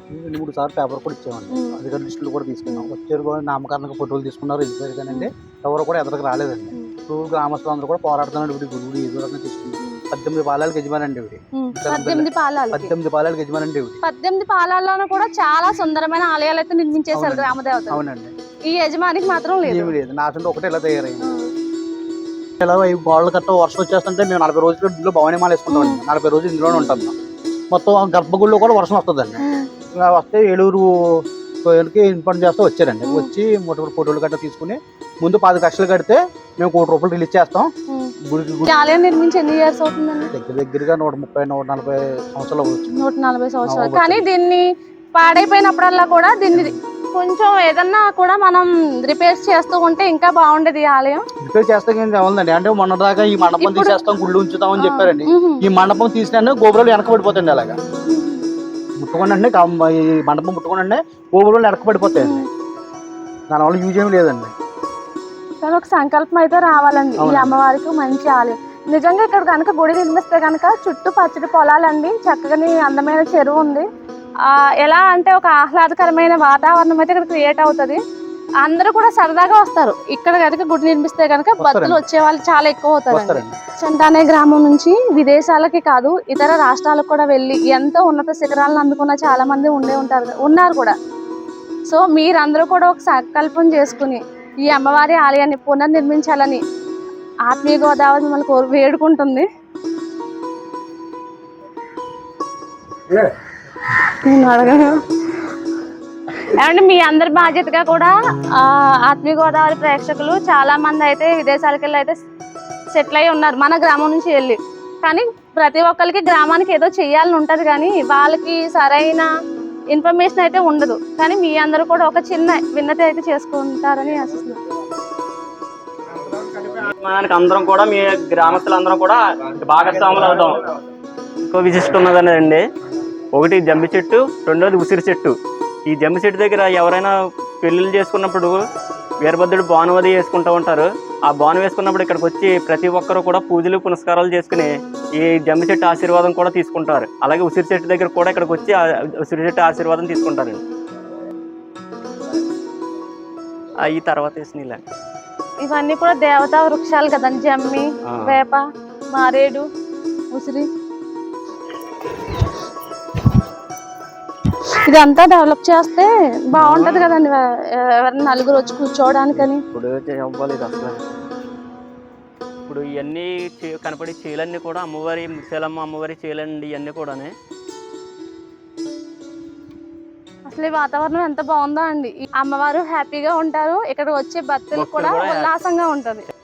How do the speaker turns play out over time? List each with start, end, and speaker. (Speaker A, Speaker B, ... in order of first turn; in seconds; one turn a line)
Speaker A: 0.1-14.0
Speaker B: 1.5-1.8
Speaker B: 11.5-12.9
Speaker B: 14.0-18.0
Speaker A: 17.1-18.3
Speaker B: 18.6-19.9
Speaker A: 19.6-21.4
Speaker A: 22.6-27.1
Speaker B: 25.7-26.0
Speaker B: 26.7-27.0
Speaker A: 27.7-29.4
Speaker B: 29.4-29.7
Speaker A: 29.9-37.7
Speaker B: 33.0-33.3
Speaker A: 38.3-38.7
Speaker B: 38.6-40.3
Speaker A: 40.3-42.9
Speaker B: 42.9-44.6
Speaker A: 43.6-44.2
Speaker B: 45.1-51.2
Speaker A: 51.4-57.8
Speaker B: 53.6-54.0
Speaker B: 54.8-55.6
Speaker B: 58.1-58.4
Speaker A: 59.0-62.5
Speaker B: 62.2-62.4
Speaker A: 63.5-64.5
Speaker B: 65.6-73.8
Speaker A: 67.2-67.5
Speaker B: 74.4-78.0
Speaker B: 78.6-91.0
Speaker A: 81.6-82.0
Speaker A: 83.1-83.6
Speaker B: 91.9-96.6
Speaker B: 97.5-99.5
Speaker B: 103.9-105.4
Speaker B: 106.3-112.2
Speaker B: 112.9-119.3
Speaker B: 119.9-124.6
Speaker C: 126.7-130.7
Speaker C: 131.5-132.6
Speaker C: 133.3-135.3
Speaker C: 135.9-138.6
Speaker C: 139.2-150.6
Speaker C: 153.8-154.8
Speaker B: 155.6-159.7
Speaker C: 158.1-158.4
Speaker B: 160.3-160.7
Speaker B: 164.8-169.6
Speaker C: 166.6-167.1
Speaker C: 169.3-171.1
Speaker C: 172.7-177.3
Speaker B: 180.5-186.2
Speaker C: 184.7-185.5